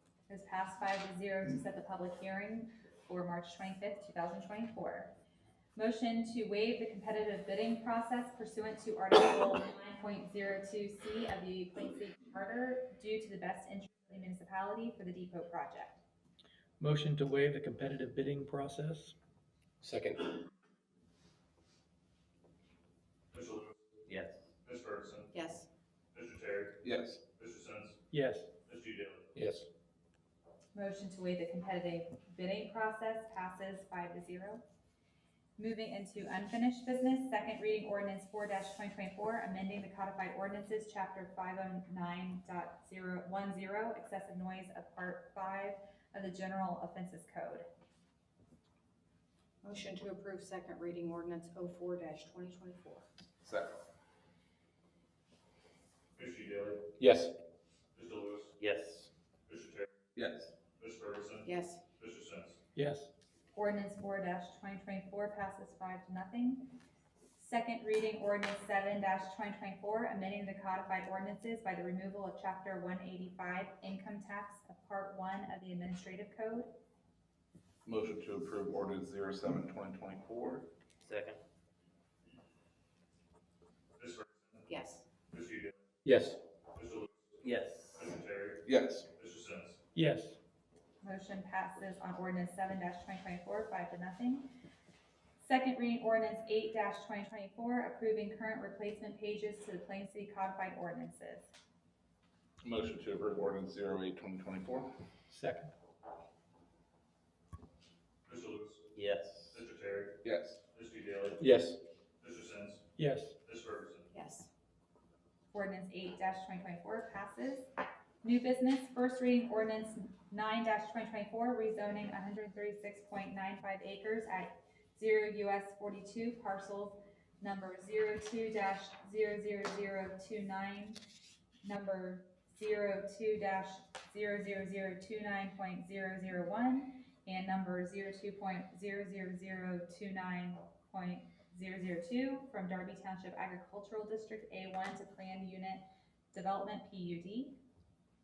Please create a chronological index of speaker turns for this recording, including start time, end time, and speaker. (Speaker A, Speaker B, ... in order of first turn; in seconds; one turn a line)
Speaker A: 0.3-5.1
Speaker A: 5.8-16.0
Speaker B: 16.8-19.1
Speaker C: 19.8-20.3
Speaker D: 23.3-23.7
Speaker E: 24.1-24.4
Speaker D: 24.6-25.3
Speaker F: 25.3-25.7
Speaker D: 26.1-26.8
Speaker G: 26.8-27.2
Speaker D: 27.4-28.0
Speaker B: 28.1-28.5
Speaker D: 28.7-29.3
Speaker C: 29.3-29.7
Speaker A: 30.7-34.6
Speaker A: 35.6-47.6
Speaker F: 49.6-53.0
Speaker G: 53.4-53.8
Speaker D: 56.2-56.9
Speaker C: 57.0-57.3
Speaker D: 58.0-58.5
Speaker E: 58.6-59.1
Speaker D: 59.5-59.9
Speaker G: 60.1-60.5
Speaker D: 60.8-62.5
Speaker F: 61.4-61.8
Speaker B: 62.8-63.1
Speaker A: 63.5-66.7
Speaker A: 67.4-76.7
Speaker G: 77.8-80.7
Speaker E: 81.0-81.4
Speaker D: 84.0-84.3
Speaker F: 84.7-85.0
Speaker D: 85.3-85.7
Speaker C: 86.0-86.4
Speaker D: 86.8-87.1
Speaker E: 87.4-88.2
Speaker D: 87.9-88.6
Speaker G: 88.6-89.1
Speaker D: 89.2-89.8
Speaker B: 89.9-90.4
Speaker A: 91.0-94.5
Speaker A: 95.4-101.5
Speaker G: 102.6-104.9
Speaker B: 105.3-105.7
Speaker D: 108.3-108.9
Speaker E: 108.9-109.6
Speaker D: 109.5-110.2
Speaker G: 110.2-110.6
Speaker D: 110.7-111.4
Speaker C: 111.4-111.8
Speaker D: 112.2-112.8
Speaker B: 113.0-113.3
Speaker D: 113.5-114.0
Speaker F: 114.1-114.5
Speaker A: 115.5-117.7
Speaker A: 118.2-131.0
Speaker A: 131.6-147.6